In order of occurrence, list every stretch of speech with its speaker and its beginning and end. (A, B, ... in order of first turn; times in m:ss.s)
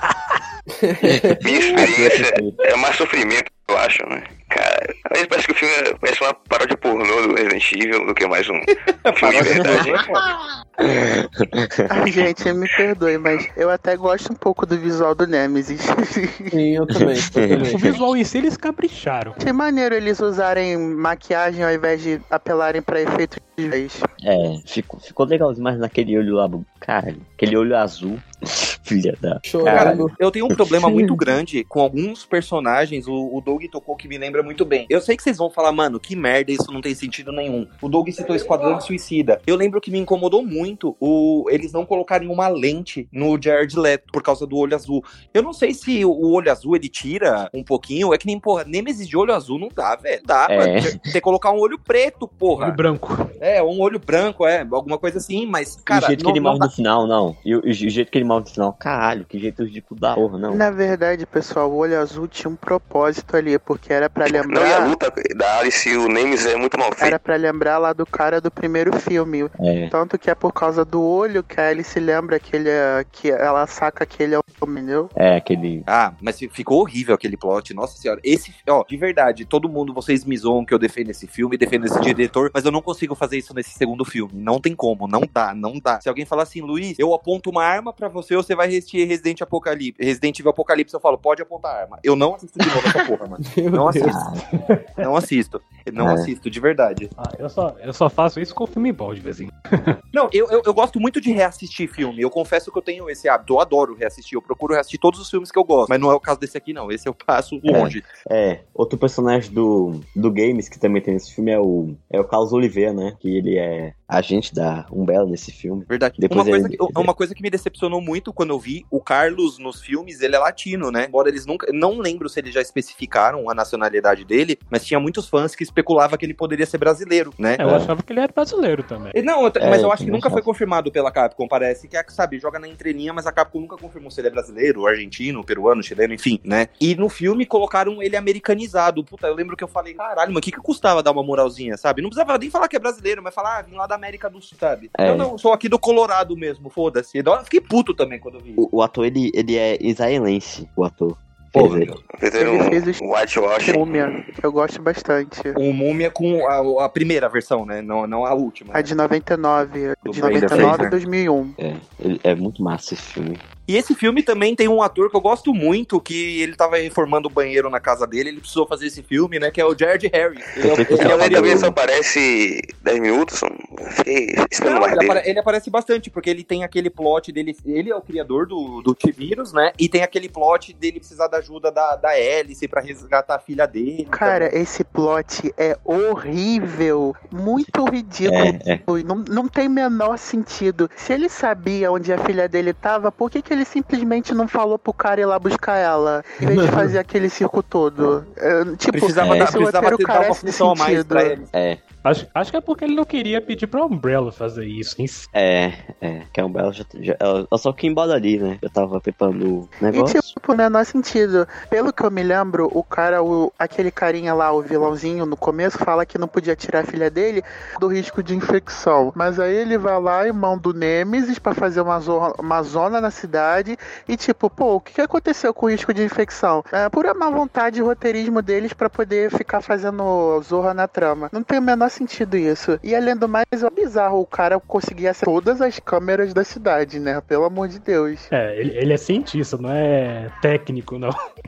0:00.7-0:01.8 A
0:01.4-0:10.1 B
0:01.7-0:02.6 C
0:09.0-0:10.2 D
0:09.5-0:09.9 C
0:10.8-0:12.2 C
0:11.9-0:16.5 E
0:16.5-0:18.0 A
0:17.4-0:17.7 C
0:17.7-0:19.4 F
0:19.4-0:24.1 E
0:24.2-0:31.2 C
0:29.5-0:30.1 A
0:29.7-0:52.8 D
0:50.5-0:51.1 C
0:52.5-0:53.2 F
0:53.4-0:56.7 D
0:55.9-1:00.6 C
1:00.5-1:04.9 E
1:04.3-1:07.2 B
1:07.0-1:15.1 E
1:09.6-1:09.9 C
1:15.2-1:15.9 C
1:15.9-1:34.2 D
1:32.7-1:33.1 C
1:33.5-1:34.2 A
1:34.1-1:34.4 C
1:34.7-1:35.0 F
1:35.0-1:37.1 D
1:36.0-1:36.3 C
1:37.2-1:39.9 F
1:40.1-1:48.1 D
1:47.7-1:57.1 C
1:55.9-2:07.6 D
2:07.6-2:09.2 F
2:07.6-2:07.9 C
2:09.2-2:28.6 D
2:09.6-2:10.5 C
2:25.0-2:25.3 C
2:28.6-2:32.0 C
2:31.5-2:32.0 D
2:32.2-2:34.3 B
2:32.4-2:33.0 E
2:33.6-2:35.6 E
2:35.6-2:38.9 D
2:38.7-2:41.6 E
2:40.0-2:41.0 D
2:40.1-2:40.9 C
2:41.6-2:43.4 C
2:43.7-2:51.7 D
2:50.6-2:51.8 C
2:50.9-2:55.2 B
2:54.6-3:04.5 D
3:04.1-3:21.4 E
3:08.2-3:08.8 C
3:16.4-3:17.0 A
3:18.9-3:21.5 D
3:19.2-3:19.6 C
3:21.5-3:21.8 C
3:22.0-3:25.3 F
3:25.3-3:30.2 C
3:29.9-3:58.3 E
3:58.3-4:01.2 F